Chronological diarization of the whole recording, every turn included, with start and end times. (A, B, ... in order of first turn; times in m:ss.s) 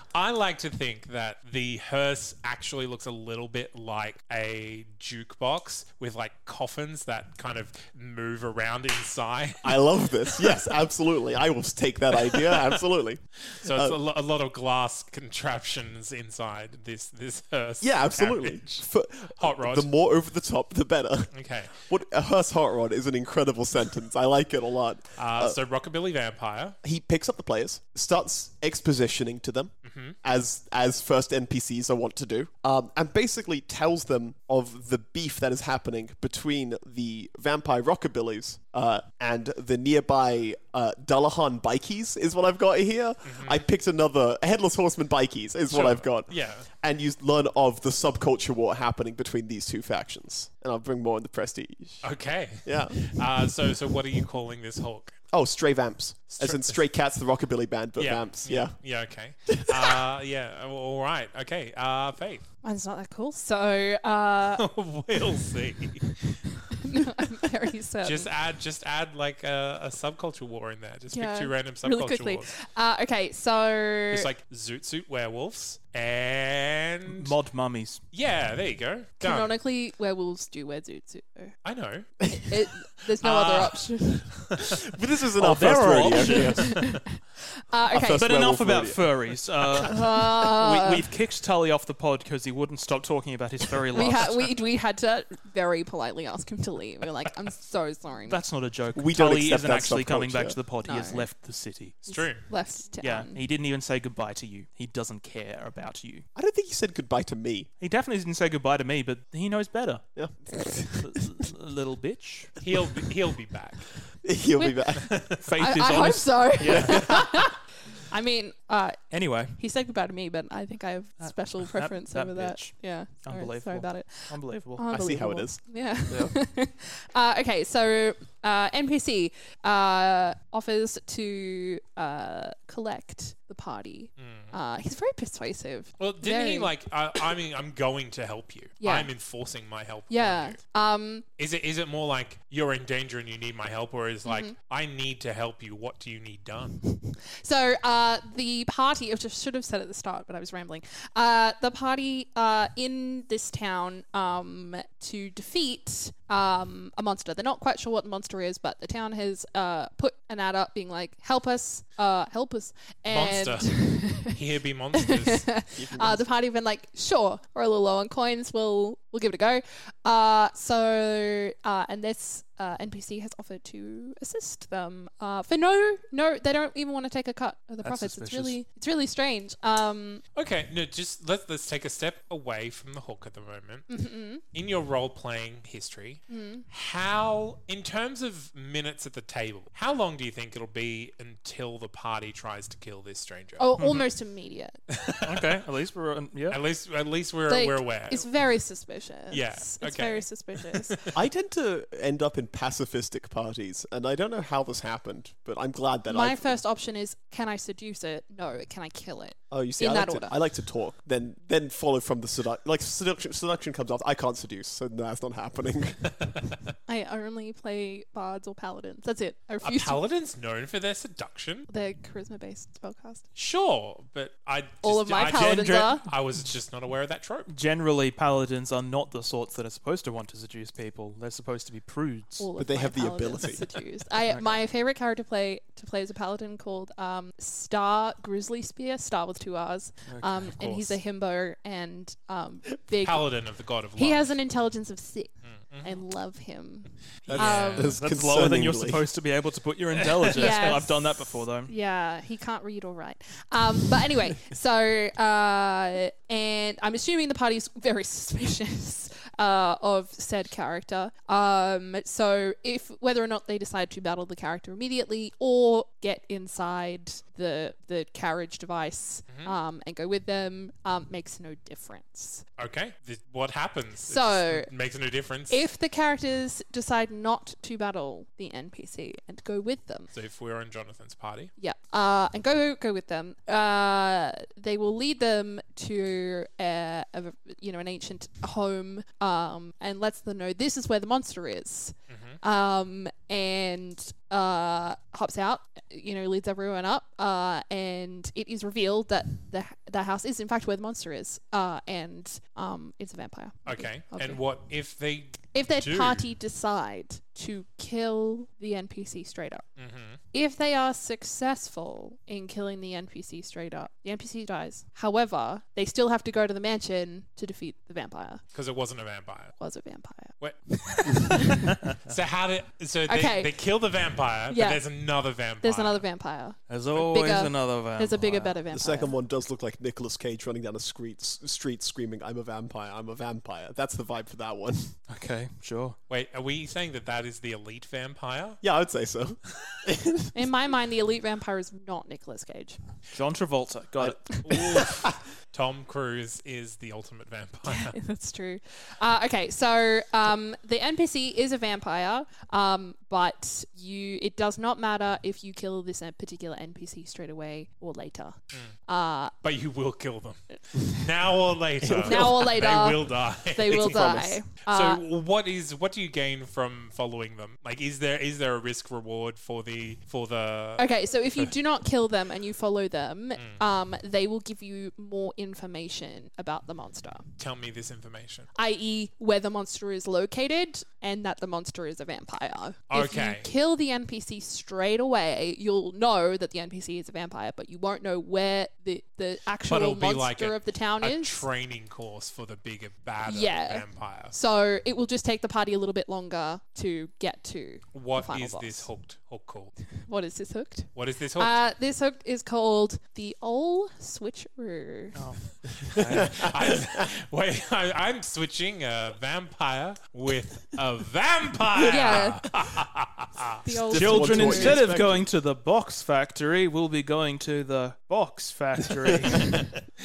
0:00.1-0:10.8 A
0:09.6-0:14.0 B
0:12.2-0:12.8 A
0:13.5-0:18.9 A
0:17.8-0:25.6 B
0:19.4-0:19.9 A
0:21.3-0:21.9 A
0:25.2-0:26.8 A
0:26.8-0:53.4 B
0:29.8-0:30.2 A
0:43.2-0:43.6 A
0:45.7-0:46.7 A
0:52.0-0:55.2 A
0:55.3-0:58.8 B
0:56.4-0:56.8 A
0:58.0-1:02.4 A
0:59.5-0:59.9 B
1:02.6-1:04.6 C
1:04.6-1:06.4 A
1:06.7-1:08.3 C
1:08.0-1:12.5 A
1:11.1-1:14.3 C
1:14.1-1:17.4 A
1:17.1-1:18.0 D
1:18.1-1:19.6 A
1:19.2-1:21.6 C
1:21.6-1:22.3 A
1:22.3-1:24.3 C
1:23.2-1:24.8 A
1:24.8-1:26.9 B
1:25.4-1:26.7 D
1:26.3-1:28.3 C
1:27.9-1:30.0 B
1:28.1-1:34.5 D
1:29.8-1:31.0 C
1:34.0-1:38.4 C
1:38.3-1:42.0 D
1:39.0-1:40.6 B
1:40.8-1:41.3 C
1:42.0-1:42.5 A
1:42.0-1:43.4 C
1:43.0-1:46.3 D
1:46.4-1:47.7 B
1:47.8-1:50.1 D
1:50.2-1:51.1 B
1:51.0-1:52.6 D
1:52.6-1:54.0 A
1:54.2-1:55.2 B
1:54.6-1:54.8 C
1:55.1-1:55.4 A
1:55.4-1:57.2 D
1:55.6-1:57.6 C
1:56.7-1:57.2 B
1:58.1-2:16.7 C
1:59.1-1:59.6 D
2:01.2-2:04.8 D
2:04.9-2:05.6 B
2:14.2-2:14.5 A
2:16.0-2:20.6 A
2:18.8-2:19.1 C
2:20.1-2:21.3 C
2:21.4-2:26.8 A
2:24.2-2:24.6 C
2:27.1-2:44.3 C
2:43.1-2:45.5 A
2:44.9-3:00.2 C
2:45.8-2:46.2 B
2:57.8-2:58.6 D
3:00.4-3:14.0 A
3:03.9-3:04.4 C
3:06.3-3:06.7 C
3:13.6-3:14.8 C
3:15.0-3:15.5 A
3:15.2-3:16.6 D
3:16.5-3:18.3 A
3:17.5-3:20.9 C
3:19.3-3:21.1 A
3:21.1-3:26.6 B
3:26.1-3:30.4 C
3:29.5-3:36.3 B
3:36.9-3:40.0 C
3:39.6-3:41.7 A
3:41.7-3:43.3 C
3:43.4-3:47.5 A
3:44.8-3:46.0 C
3:45.2-3:46.0 D
3:47.5-3:52.5 D
3:52.4-4:03.4 C
3:52.6-3:53.7 B
3:54.3-3:54.6 D
4:00.1-4:01.0 D
4:03.0-4:04.3 A
4:04.0-4:07.9 C
4:05.4-4:06.0 A
4:07.3-4:08.0 A
4:07.3-4:09.1 B
4:07.9-4:11.7 D
4:10.4-4:32.4 C
4:29.3-4:29.6 A
4:32.6-4:35.7 A
4:34.1-4:34.7 C
4:35.5-4:40.1 C
4:40.1-4:41.5 A
4:41.6-5:04.4 C
4:52.1-4:52.4 A
5:03.7-5:06.2 A
5:05.5-5:09.7 C
5:09.8-5:10.2 A
5:10.3-5:18.4 C
5:18.5-5:19.6 A
5:19.6-5:21.5 C
5:20.4-5:26.0 A
5:23.1-5:23.6 C
5:24.5-5:24.8 C
5:25.6-5:29.2 C
5:26.7-5:28.6 D
5:28.7-5:35.0 B
5:35.1-5:36.0 D
5:36.1-5:38.6 A
5:38.6-5:40.4 B
5:40.3-5:42.8 C
5:43.1-5:44.7 D
5:44.0-5:45.1 B
5:44.4-5:48.0 A
5:47.7-5:59.3 C
5:59.4-6:11.5 A
6:01.8-6:02.5 B
6:02.0-6:05.0 C
6:03.7-6:04.3 B
6:10.8-6:17.2 C
6:17.4-6:18.5 A
6:18.6-6:31.4 C
6:22.9-6:23.5 A
6:29.7-6:34.4 A
6:33.3-6:38.9 C
6:37.9-6:39.7 A
6:40.0-6:45.2 C
6:41.0-6:41.6 A
6:45.2-6:46.3 D
6:45.9-6:53.6 A
6:46.1-6:47.0 B
6:51.8-6:52.4 C
6:53.6-6:54.8 C
6:53.7-6:55.3 B
6:53.9-6:59.6 D